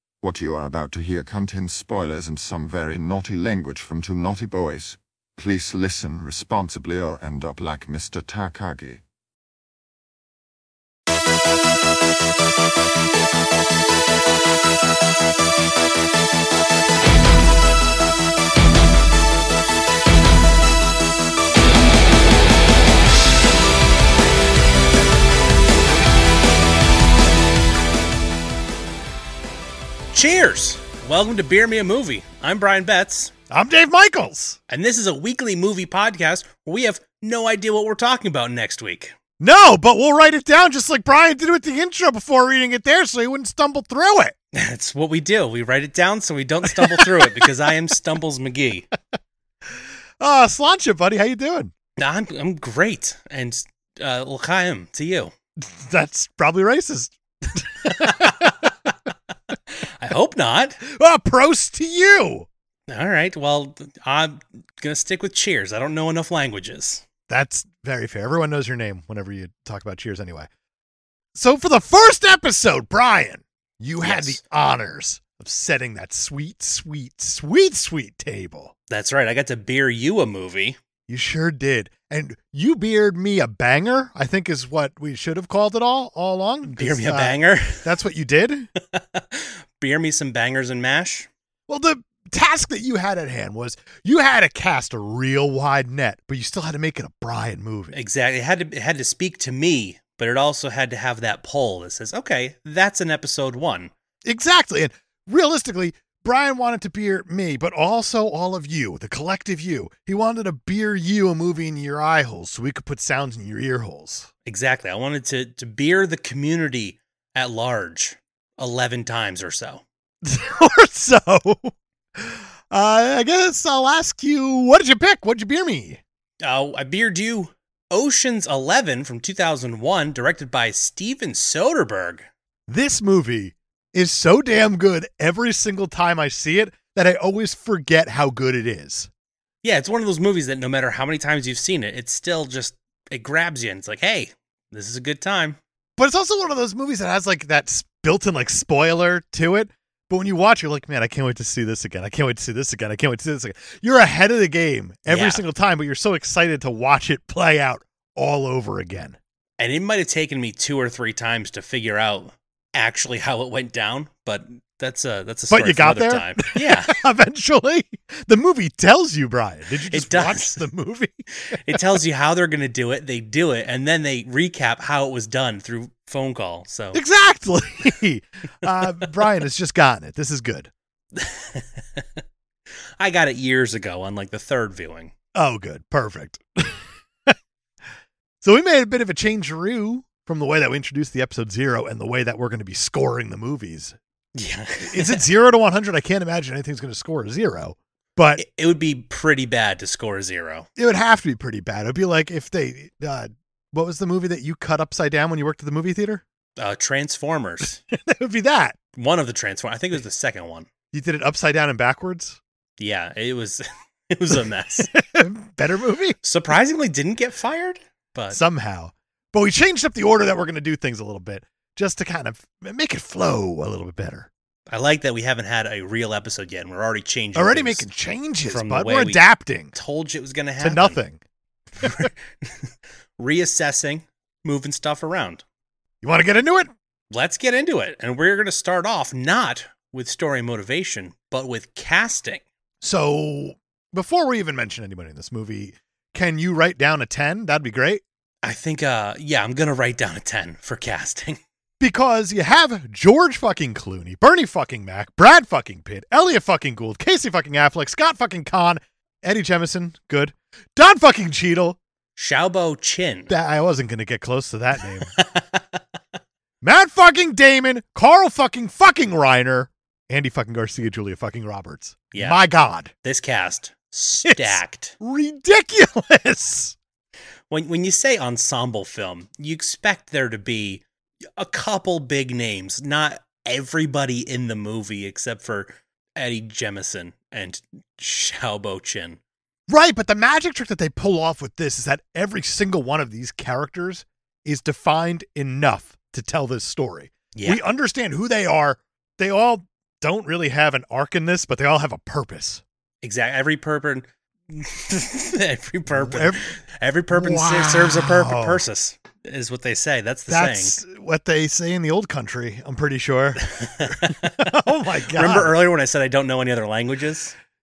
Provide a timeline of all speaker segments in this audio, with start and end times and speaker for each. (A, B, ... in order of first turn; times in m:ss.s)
0:00.2-0:09.0 A
0:30.1-0:33.3 B
0:33.5-0:34.6 C
0:34.7-0:39.2 B
0:39.4-0:44.3 C
0:44.5-0:48.9 B
0:46.6-0:47.5 C
0:50.2-0:51.7 C
0:52.0-0:55.3 B
0:55.6-0:58.9 C
0:58.0-0:58.5 B
0:59.8-1:00.8 B
1:00.8-1:02.5 C
1:02.9-1:07.0 B
1:07.3-1:10.5 C
1:11.4-1:18.7 C
1:14.0-1:14.4 B
1:18.9-1:20.8 B
1:21.1-1:28.7 C
1:26.6-1:27.9 B
1:28.9-1:31.3 B
1:31.7-1:38.0 C
1:37.9-1:43.9 B
1:44.2-1:54.3 C
1:54.5-1:59.8 B
2:00.2-2:06.0 C
2:06.4-2:12.3 B
2:12.7-2:19.1 C
2:19.6-2:25.6 B
2:26.0-2:39.2 C
2:35.1-2:35.5 B
2:39.6-2:47.0 B
2:45.5-2:51.2 C
2:49.9-2:50.6 B
2:51.4-2:57.0 B
2:56.9-3:00.7 C
3:01.2-3:02.2 B
3:03.0-3:05.1 B
3:05.3-3:07.4 C
3:08.4-3:14.0 C
3:14.4-3:15.2 B
3:14.8-3:18.4 C
3:18.4-3:20.7 B
3:20.8-3:26.2 C
3:26.6-3:27.8 B
3:27.9-3:28.8 C
3:29.0-3:30.7 B
3:30.9-3:32.4 C
3:32.8-3:34.9 B
3:34.9-3:36.2 C
3:36.2-3:38.4 B
3:38.3-3:44.3 C
3:44.7-3:47.9 B
3:47.4-3:49.7 C
3:48.5-3:51.0 B
3:50.6-3:51.2 C
3:51.8-3:55.4 B
3:51.8-3:52.1 C
3:56.0-3:56.7 C
3:57.1-4:02.4 B
4:02.8-4:08.0 C
4:08.4-4:11.4 B
4:11.8-4:21.8 C
4:22.2-4:23.3 B
4:23.3-4:25.1 C
4:25.1-4:25.8 B
4:26.6-4:32.9 C
4:32.1-4:32.4 B
4:33.0-4:35.0 B
4:34.2-4:36.8 C
4:37.5-4:40.8 B
4:41.4-4:49.2 B
4:49.7-5:02.6 C
4:57.3-4:57.6 B
5:03.0-5:10.8 B
5:05.9-5:06.5 C
5:07.1-5:08.6 C
5:10.3-5:15.6 C
5:13.5-5:14.6 B
5:15.1-5:17.4 B